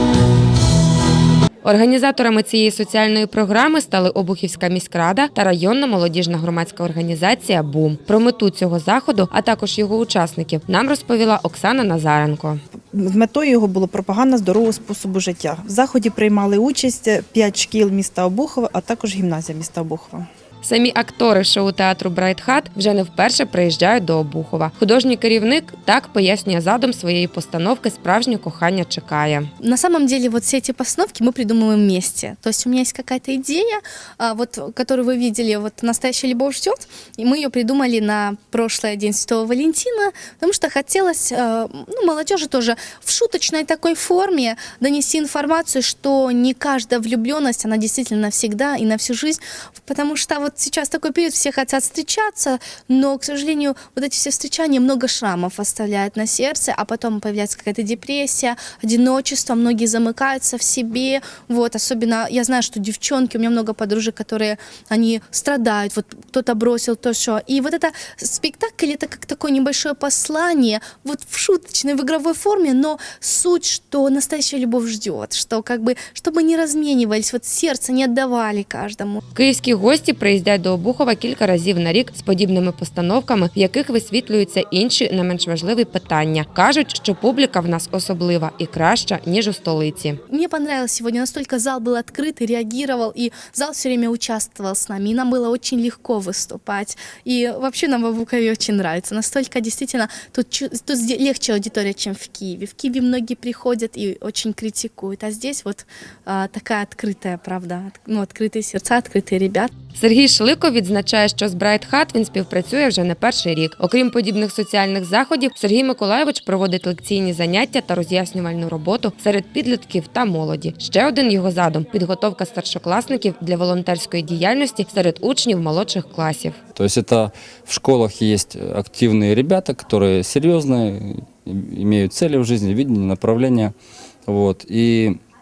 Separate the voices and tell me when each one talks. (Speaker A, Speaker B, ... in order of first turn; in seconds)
Speaker A: 1.6-12.6, 20.6-29.5, 79.3-90.2, 110.0-126.6
Speaker B: 12.9-20.3
Speaker C: 29.6-79.2, 90.3-109.7
Speaker D: 126.8-133.7, 134.3-135.2